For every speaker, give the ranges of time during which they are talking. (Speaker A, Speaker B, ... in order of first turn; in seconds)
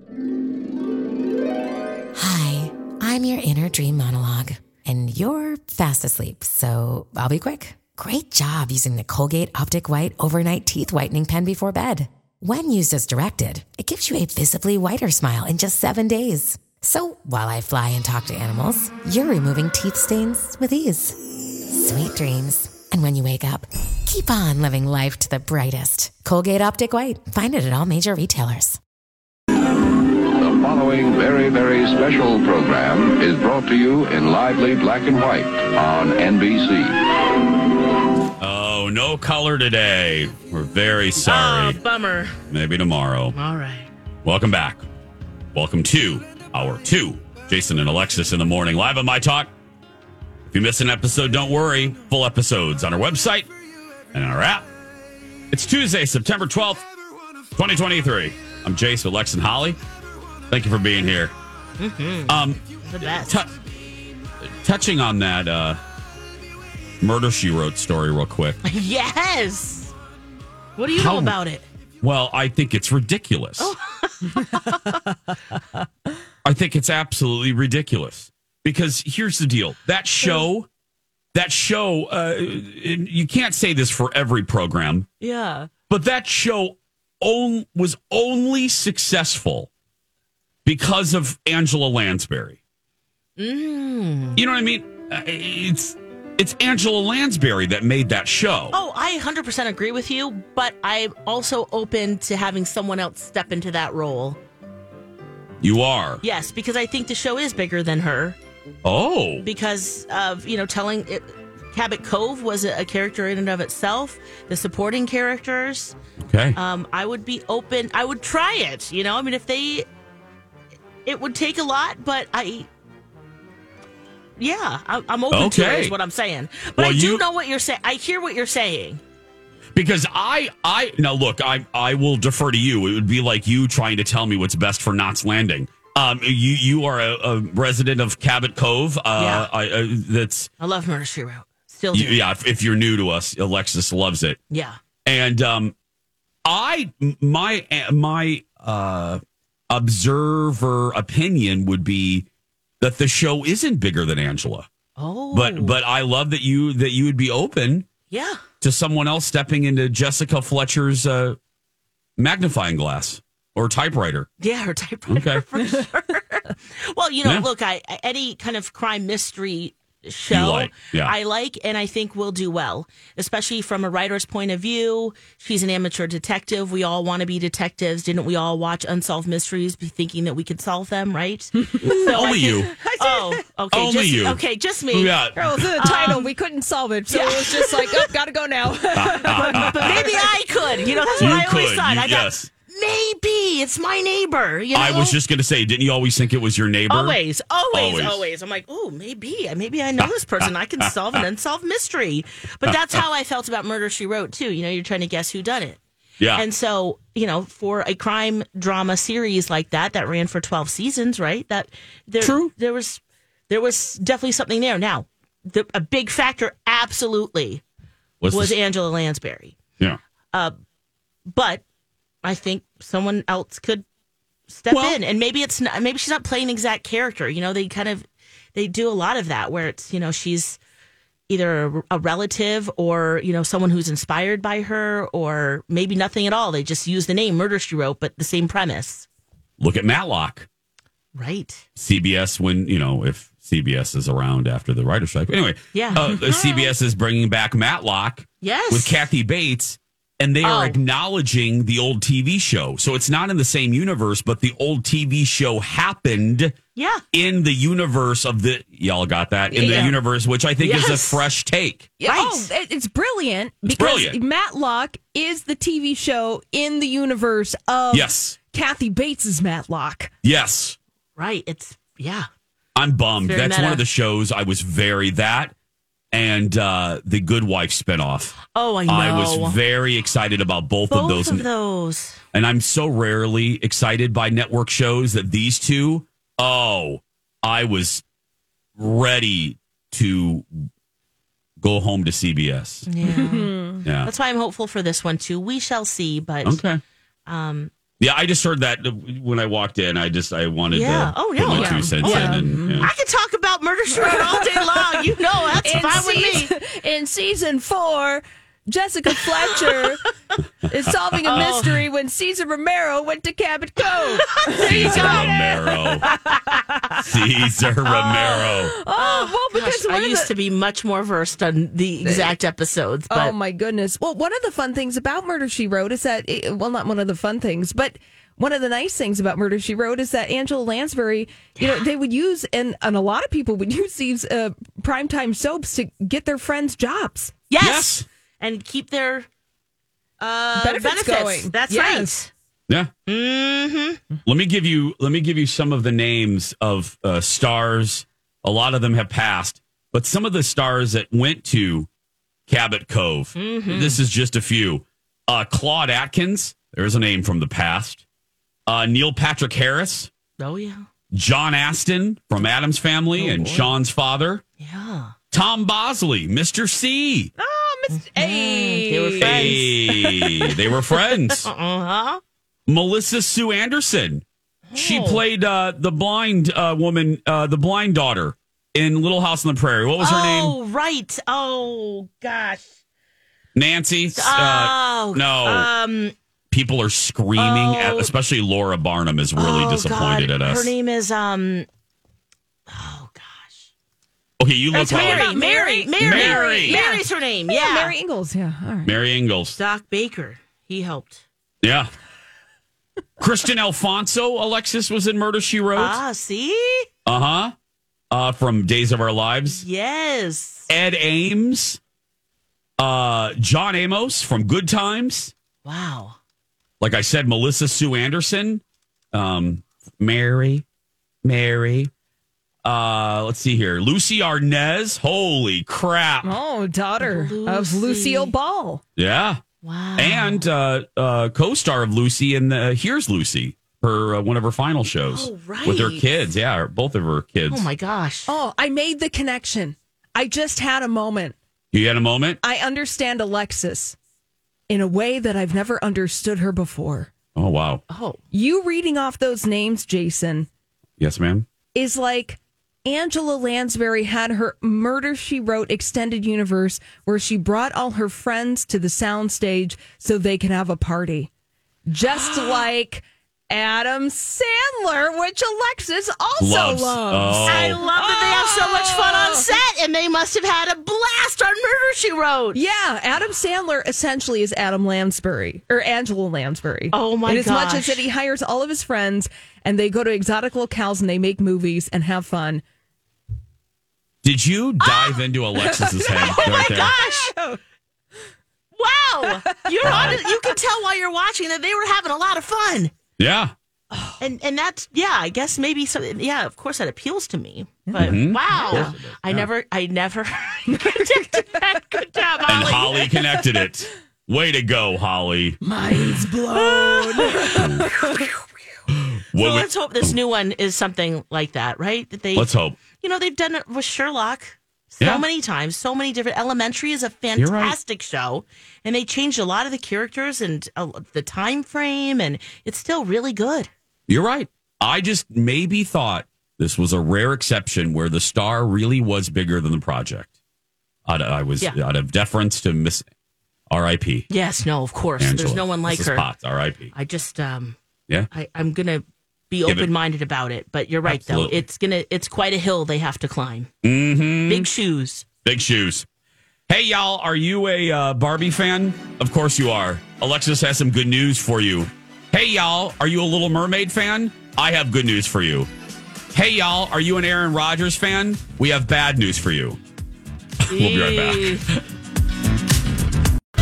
Speaker A: 2.1-28.8
Speaker B: 30.3-37.0
Speaker C: 38.4-41.8, 42.5-43.3, 44.2-44.8, 45.5-49.5, 50.5-53.5, 54.1-54.7, 55.5-56.9, 57.5-59.8, 60.5-61.3, 62.3-63.5, 64.6-65.8, 67.0-68.6, 70.9-71.4, 72.0-73.7, 76.4-80.7, 81.3-85.1, 85.9-89.7, 90.6-92.6, 94.3-98.8, 105.6-106.2, 108.8-109.4, 116.2-116.6, 125.3-125.9, 126.8-127.2, 129.7-140.5, 141.9-144.4, 145.0-145.7, 146.4-152.3, 152.8-154.7, 155.3-157.9, 158.6-161.4, 162.2-164.3, 165.1-165.4, 170.3-171.1, 181.8-182.7, 183.7-184.4, 184.9-186.2, 188.9-190.2, 191.2-192.5, 194.7-197.2, 197.7-198.3, 200.0-201.2, 202.6-203.0, 206.2-206.4, 212.2-212.5, 218.2-218.6, 224.7-225.0, 239.6-240.5, 241.8-256.6, 257.1-261.9, 263.6-264.2, 267.9-268.4, 270.2-270.8, 272.8-275.5, 276.1-281.5, 282.3-288.0, 288.8-290.6, 291.6-292.9, 293.8-294.1, 296.4-296.8, 298.0-302.9, 310.9-311.4, 314.6-316.1, 317.0-318.7, 337.6-338.1, 344.2-351.9, 352.5-358.0, 358.7-360.1, 361.1-364.4, 365.3-367.3, 369.2-371.5, 372.7-374.2, 374.7-380.6, 383.5-385.7, 386.5-390.7, 394.4-395.3, 396.0-396.8, 398.8-399.6, 401.6-401.9, 403.2-406.0, 407.0-407.5, 408.1-409.6, 410.7-411.8, 412.8-415.3, 416.8-420.6, 421.2-421.9, 422.6-426.4, 429.0-429.4, 430.0-437.6, 441.7-442.4, 447.3-447.8, 451.0-451.5, 466.4-467.8, 484.2-486.9, 489.8-490.2, 493.2-493.5, 497.9-499.5, 502.5-505.6, 507.4-507.9, 508.9-510.1, 512.3-512.8, 515.0-515.2, 517.4-517.8, 524.1-530.3, 531.0-533.1, 533.7-534.3, 535.2-536.9, 541.0-541.6, 543.8-544.7, 545.4-546.1, 546.7-555.7, 556.3-559.8, 560.6-561.8
Speaker D: 41.2-42.4, 43.3-43.9, 61.8-63.4, 68.6-69.9, 70.8-71.7, 73.6-75.0, 85.2-85.7, 93.4-94.4, 98.7-104.4, 106.2-108.4, 109.4-116.0, 116.5-119.8, 121.0-122.7, 124.4-129.0, 139.2-139.5, 140.6-142.2, 144.5-144.8, 155.0-155.8, 158.1-158.4, 164.4-185.2, 185.8-186.3, 187.1-188.1, 189.2-195.2, 196.9-205.8, 206.3-217.6, 218.3-219.6, 221.3-221.6, 222.2-223.8, 224.5-230.6, 231.3-239.1, 241.1-241.6, 245.7-246.1, 248.4-249.1, 250.4-250.8, 256.8-257.0, 260.6-261.2, 262.1-262.5, 271.1-272.3, 273.2-273.8, 278.5-279.6, 280.9-282.2, 292.9-296.6, 297.3-297.7, 300.7-306.5, 311.2-311.9, 314.3-315.4, 316.0-316.6, 318.9-323.4, 331.6-331.9, 337.5-339.3, 340.2-342.3, 343.1-344.0, 353.4-354.0, 360.4-360.9, 364.6-365.1, 367.9-369.8, 371.2-372.2, 374.7-375.2, 380.0-382.7, 384.1-386.1, 387.4-388.1, 389.4-391.7, 392.7-393.7, 394.7-397.9, 399.6-401.2, 405.7-406.9, 409.5-410.7, 415.6-416.2, 427.0-428.3, 429.6-430.5, 435.1-436.0, 437.5-438.3, 447.9-448.2, 462.1-462.6, 467.4-472.6, 476.9-478.0, 486.0-487.3, 488.7-492.9, 494.2-503.1, 506.5-508.3, 509.4-523.7, 534.3-536.3, 536.9-537.8, 538.3-543.7, 544.5-545.2, 560.7-561.6
Speaker E: 182.8-183.4, 185.3-191.3, 259.5-260.0, 262.0-270.1, 293.1-293.8, 301.5-302.9, 303.9-310.0, 310.7-316.3, 317.9-320.3, 322.0-322.3, 323.1-337.3, 340.6-342.1, 363.2-363.6, 367.4-370.4, 394.8-398.9, 426.2-428.8, 438.3-441.4, 442.4-444.0, 444.7-447.1, 448.3-450.5, 451.7-461.3, 461.9-469.4, 472.5-482.6, 485.6-487.6, 489.5-490.5, 500.7-501.4, 505.6-508.3